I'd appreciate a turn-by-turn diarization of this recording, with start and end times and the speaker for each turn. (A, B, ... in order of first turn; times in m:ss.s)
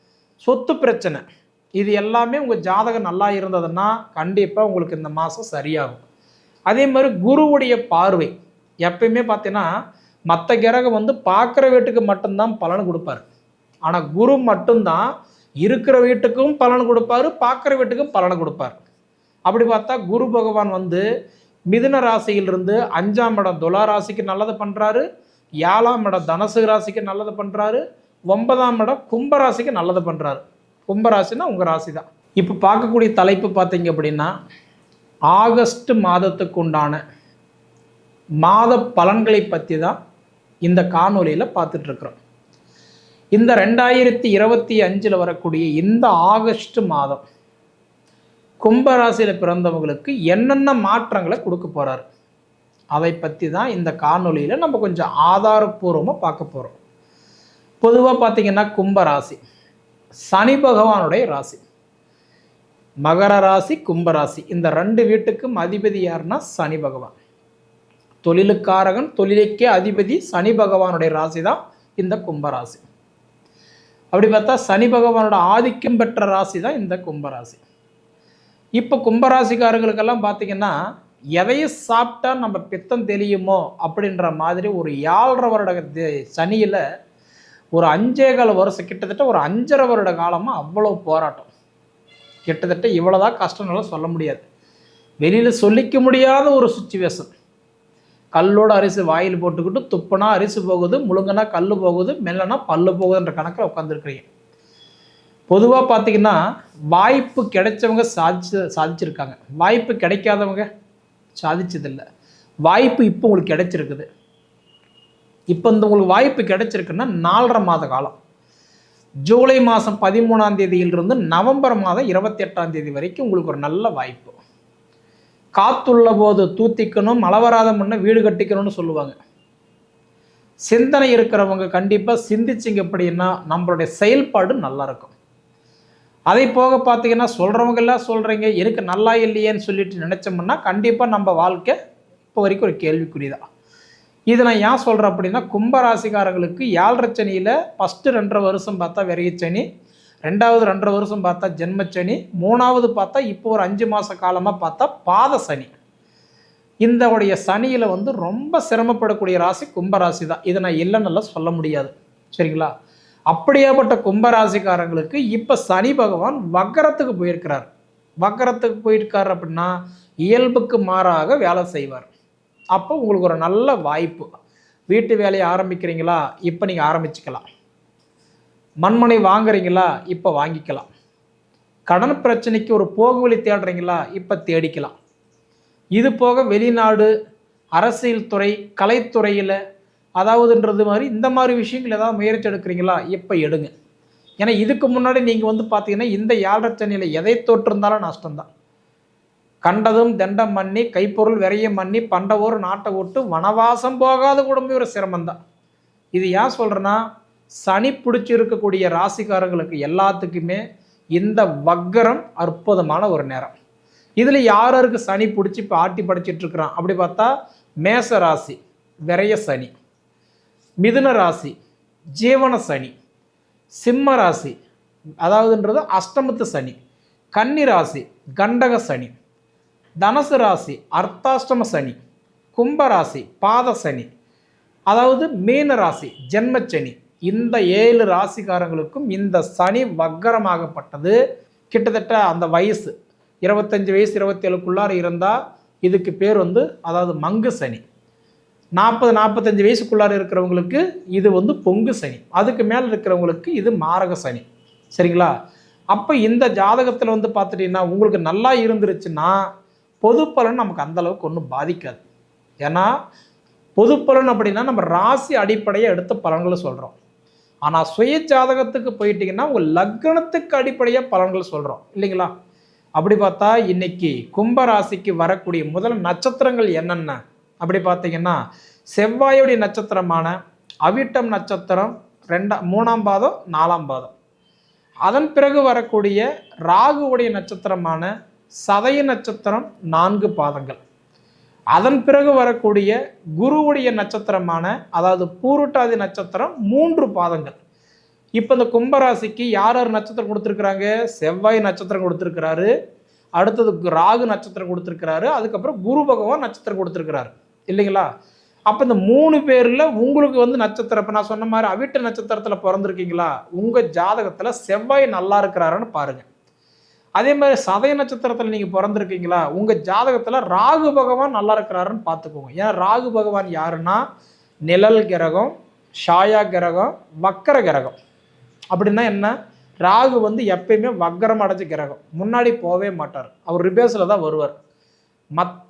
0:00.4-0:01.2 A
0:01.8-0:06.0 A
0:06.7-0:08.3 A
0:08.8-0:09.7 A
0:10.3-0:13.2 A
0:13.9-0:15.0 A
0:15.6-0:18.8 A
0:19.5-0:21.0 A
0:21.7-0:25.0 A
0:25.6-0:34.3 A
0:35.3-0:37.0 A
0:38.4-0:40.0 A
0:40.6-0:42.2 A
0:43.4-0:47.2 A
0:48.6-0:52.0 A
0:53.0-0:56.8 A
0:57.8-0:59.4 A
1:00.3-1:01.6 A
1:03.0-1:07.2 A
1:08.2-1:12.8 A
1:14.1-1:17.6 A
1:18.8-1:20.7 A
1:21.4-1:26.8 A
1:27.8-1:31.5 A
1:32.5-1:34.4 A
1:35.2-1:37.3 A
1:38.4-1:44.3 A
1:45.5-1:46.4 A
1:46.9-1:50.7 A
1:51.4-1:52.0 A
1:52.7-1:54.1 A
1:55.5-1:58.2 A
1:59.3-2:04.4 A
2:05.6-2:09.2 A
2:10.7-2:15.1 A
2:16.3-2:21.8 A
2:22.3-2:23.4 A
2:24.3-2:29.6 A
2:30.3-2:35.7 A
2:36.8-2:42.7 A
2:43.3-2:47.7 A
2:48.2-2:49.7 A
2:50.2-2:52.1 A
2:52.8-2:54.3 A
2:54.9-2:57.4 A
2:58.8-3:00.9 A
3:01.9-3:04.9 A
3:06.0-3:07.1 A
3:07.8-3:09.6 A
3:10.2-3:13.7 A
3:14.4-3:18.5 A
3:19.6-3:25.4 A
3:26.2-3:27.0 A
3:27.6-3:30.6 A
3:31.2-3:33.5 A
3:34.2-3:37.3 A
3:37.8-3:39.7 A
3:40.8-3:41.5 A
3:42.2-3:42.9 A
3:43.8-3:44.6 A
3:45.2-3:46.8 A
3:47.4-3:49.1 A
3:50.0-3:52.0 A
3:52.5-3:54.1 A
3:54.9-4:01.2 A
4:01.7-4:02.9 A
4:03.4-4:07.8 A
4:08.8-4:15.3 A
4:15.9-4:19.3 A
4:20.0-4:22.0 A
4:22.6-4:22.9 A
4:23.8-4:27.0 A
4:27.6-4:32.3 A
4:33.0-4:38.4 A
4:39.0-4:44.1 A
4:45.0-4:48.1 A
4:48.7-4:50.8 A
4:51.7-4:57.6 A
4:58.4-5:02.7 A
5:03.4-5:08.0 A
5:08.7-5:16.2 A
5:17.2-5:24.0 A
5:24.7-5:25.5 A
5:26.0-5:28.0 A
5:28.7-5:34.5 A